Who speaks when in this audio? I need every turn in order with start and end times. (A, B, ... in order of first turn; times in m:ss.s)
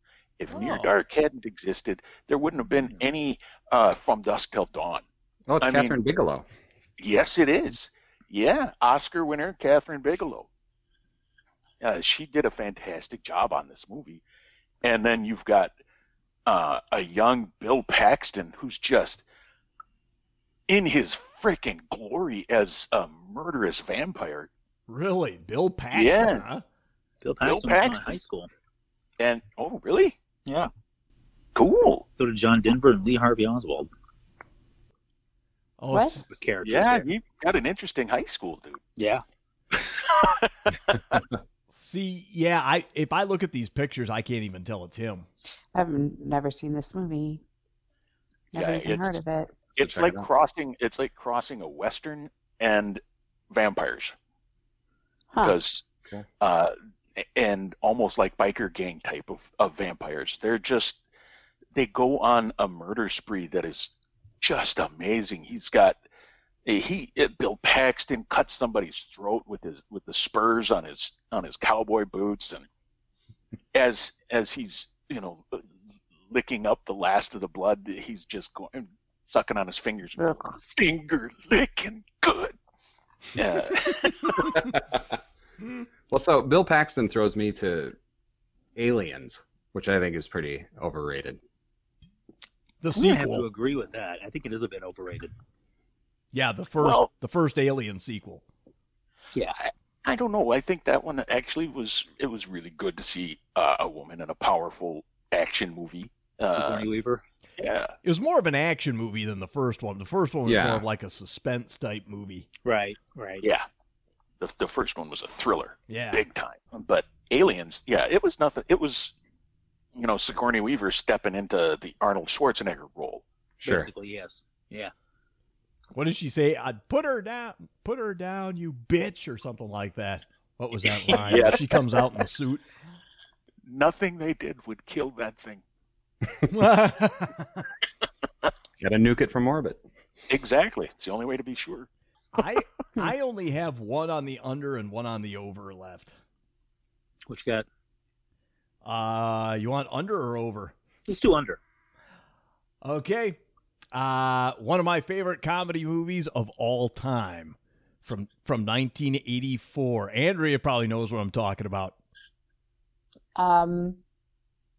0:00.4-0:05.0 A
0:00.6-0:00.9 B
0:05.5-0:06.4 C
0:05.6-0:06.0 A
0:07.0-0:10.5 A
0:11.8-0:14.2 A
0:14.8-0:15.8 A
0:16.4-0:19.2 A
0:20.7-0:24.5 A
0:24.9-0:26.6 B
0:25.9-0:26.4 A
0:27.2-0:28.5 D
0:27.4-0:28.1 A
0:29.2-0:30.2 A
0:31.5-0:32.0 A
0:32.2-0:33.9 D
0:35.8-0:36.3 B
0:35.9-0:36.2 E
0:36.3-0:37.1 D
0:36.6-0:38.8 A
0:39.0-0:39.2 D
0:39.9-0:41.2 A
0:41.7-0:45.3 B
0:45.7-0:47.4 E
0:48.5-0:49.2 A
0:48.5-0:49.5 E
0:49.8-0:54.1 A
0:49.8-0:50.2 C
0:55.3-0:55.6 E
0:55.4-0:55.9 A
0:56.4-1:01.0 A
1:01.7-1:06.0 A
1:06.6-1:12.7 A
1:13.7-1:15.6 A
1:16.3-1:22.6 A
1:20.2-1:20.5 E
1:23.3-1:24.6 A
1:24.7-1:25.2 C
1:26.1-1:28.0 C
1:28.8-1:31.4 C
1:32.8-1:33.5 B
1:32.9-1:35.3 D
1:36.3-1:38.4 B
1:36.8-1:37.1 A
1:39.6-1:46.9 A
1:46.5-1:47.2 D
1:47.6-1:48.0 A
1:48.0-1:52.5 B
1:50.4-1:50.8 C
1:52.6-1:53.5 D
1:53.4-1:53.6 A
1:54.4-1:59.1 A
1:55.9-1:56.2 B
1:59.9-2:03.2 A
2:03.6-2:03.9 C
2:03.6-2:04.9 D
2:05.9-2:12.6 B
2:11.0-2:11.9 A
2:13.6-2:15.6 A
2:16.5-2:17.6 B
2:18.8-2:19.8 C
2:20.3-2:21.9 A
2:22.3-2:26.1 B
2:27.3-2:27.6 D
2:28.8-2:30.7 B
2:31.1-2:31.6 D
2:32.8-2:33.4 B
2:33.9-2:42.0 B
2:43.4-2:44.0 E